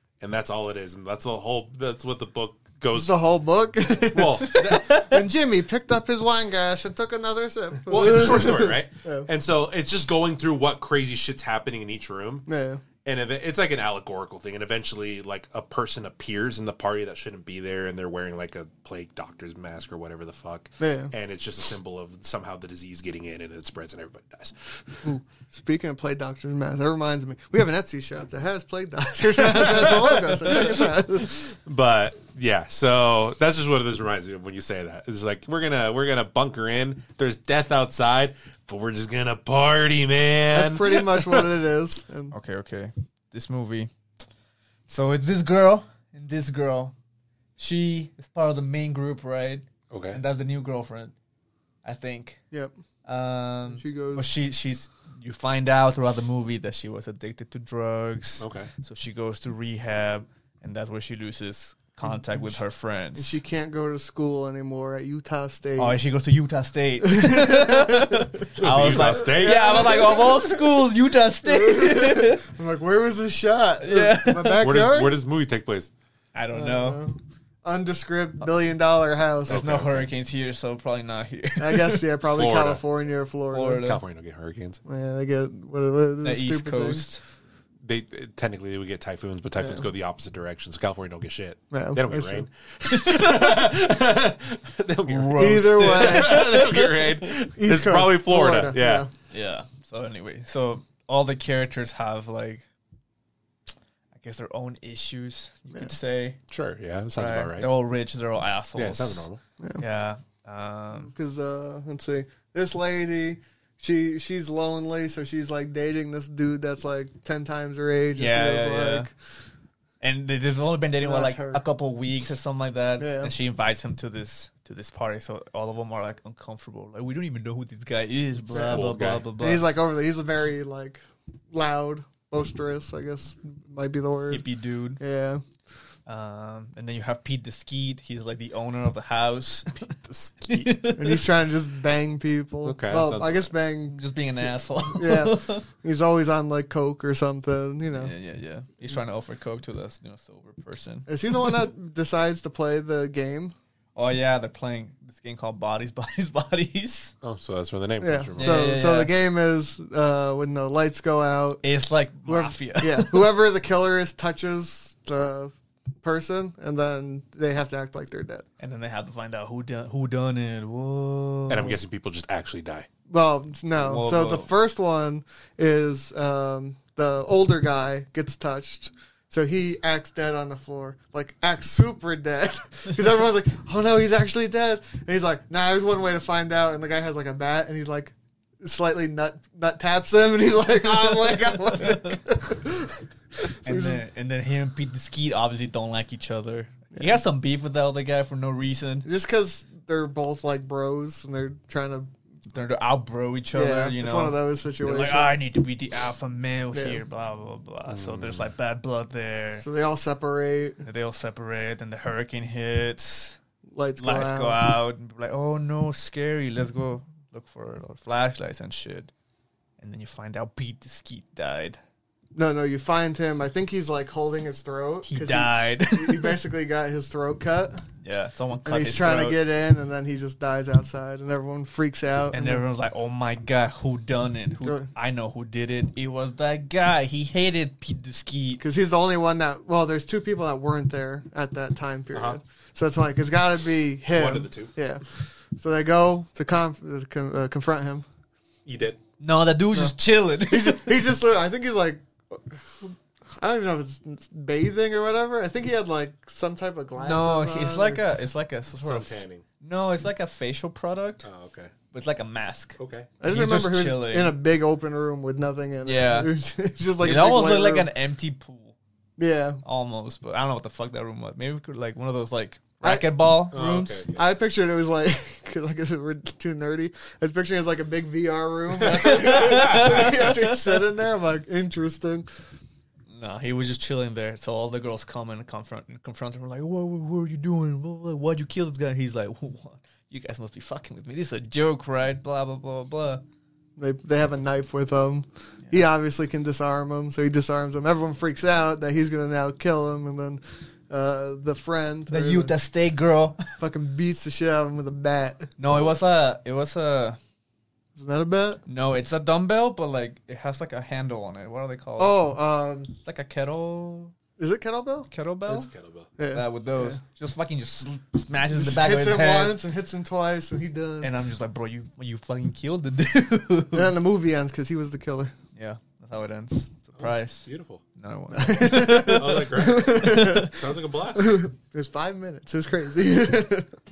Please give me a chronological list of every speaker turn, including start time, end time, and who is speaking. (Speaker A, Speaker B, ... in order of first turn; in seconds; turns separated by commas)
Speaker A: 0.2-3.2, Speaker B: 2.9-9.3, Speaker A: 4.0-5.1, Speaker C: 4.5-5.1, Speaker A: 7.9-12.5, Speaker B: 12.5-12.8, Speaker A: 13.1-25.1, Speaker B: 20.8-21.1, Speaker B: 25.0-31.4, Speaker A: 29.5-41.5, Speaker B: 40.5-42.4, Speaker C: 42.3-43.9, Speaker C: 44.9-46.9, Speaker C: 47.6-51.1, Speaker A: 49.9-50.2, Speaker C: 51.8-52.4, Speaker C: 53.1-63.4, Speaker B: 53.7-54.3, Speaker A: 58.4-58.7, Speaker B: 62.0-62.6, Speaker B: 63.1-66.0, Speaker C: 65.8-72.5, Speaker B: 67.0-70.9, Speaker A: 68.6-69.9, Speaker B: 71.4-75.2, Speaker C: 73.8-74.7, Speaker A: 74.6-75.9, Speaker C: 76.3-77.0, Speaker B: 76.5-79.6, Speaker A: 79.5-80.1, Speaker C: 79.5-82.0, Speaker B: 81.6-83.8, Speaker A: 82.3-82.8, Speaker C: 83.5-84.0, Speaker A: 83.8-84.8, Speaker B: 84.9-87.1, Speaker C: 86.2-87.2, Speaker A: 87.8-99.1, Speaker B: 89.6-89.9, Speaker B: 91.7-92.5, Speaker C: 92.9-93.6, Speaker C: 95.1-97.1, Speaker B: 95.4-96.8, Speaker B: 97.6-99.1, Speaker C: 99.3-102.7, Speaker C: 104.1-106.4, Speaker A: 106.5-107.7, Speaker C: 107.2-109.3, Speaker A: 108.8-109.4, Speaker C: 109.8-111.1, Speaker B: 111.0-119.1, Speaker C: 118.2-119.1, Speaker C: 120.0-129.7, Speaker B: 121.0-121.6, Speaker B: 123.0-123.3, Speaker B: 128.5-134.4, Speaker A: 128.5-129.3, Speaker C: 134.3-135.0, Speaker B: 135.0-135.4, Speaker C: 136.1-139.9, Speaker A: 139.8-140.8, Speaker C: 140.5-141.3, Speaker B: 141.0-148.1, Speaker A: 142.7-143.5, Speaker C: 143.9-145.7, Speaker C: 147.9-151.1, Speaker B: 151.1-153.5, Speaker C: 154.0-157.1, Speaker A: 157.2-158.7, Speaker B: 158.0-161.6, Speaker C: 158.4-159.1, Speaker C: 161.6-163.3, Speaker B: 162.3-168.5, Speaker C: 168.6-171.8, Speaker A: 171.5-172.9, Speaker B: 173.1-194.0, Speaker C: 173.8-174.5, Speaker C: 191.7-192.2, Speaker C: 193.6-199.1, Speaker B: 199.1-202.1, Speaker C: 202.5-209.7, Speaker B: 203.5-205.4, Speaker B: 206.7-207.0, Speaker A: 207.9-208.4, Speaker B: 209.6-210.8, Speaker C: 210.8-213.4, Speaker B: 213.7-214.6, Speaker C: 214.0-219.1, Speaker C: 219.8-221.8, Speaker B: 222.3-227.9, Speaker C: 225.1-226.4, Speaker C: 228.0-229.4, Speaker B: 228.7-232.6, Speaker C: 232.3-238.6, Speaker B: 234.6-234.9, Speaker B: 238.6-248.1, Speaker A: 244.1-244.7, Speaker A: 248.7-249.0, Speaker C: 249.2-251.0, Speaker B: 249.7-258.0, Speaker C: 257.0-261.3, Speaker A: 258.7-259.4, Speaker A: 261.2-261.7, Speaker C: 261.9-264.3, Speaker A: 262.8-263.1, Speaker B: 263.2-267.9, Speaker C: 265.9-266.3, Speaker C: 267.0-268.8, Speaker B: 269.2-269.6, Speaker C: 269.6-274.1, Speaker B: 272.8-273.1, Speaker A: 273.5-274.2, Speaker B: 274.1-282.3, Speaker C: 279.0-280.4, Speaker A: 279.4-280.0, Speaker C: 283.1-293.2, Speaker B: 293.8-302.5, Speaker C: 302.1-303.5, Speaker B: 303.6-305.5, Speaker C: 305.6-307.2, Speaker B: 308.0-308.6, Speaker C: 308.7-312.2, Speaker B: 312.0-312.9, Speaker C: 313.0-314.1, Speaker B: 314.4-315.1, Speaker C: 315.1-315.7, Speaker A: 315.5-316.1, Speaker B: 316.2-317.0, Speaker C: 316.3-319.6, Speaker B: 318.5-321.1, Speaker C: 321.0-323.9, Speaker B: 323.7-325.3, Speaker C: 325.6-330.6, Speaker A: 327.0-327.8, Speaker B: 328.3-333.8, Speaker A: 329.1-331.4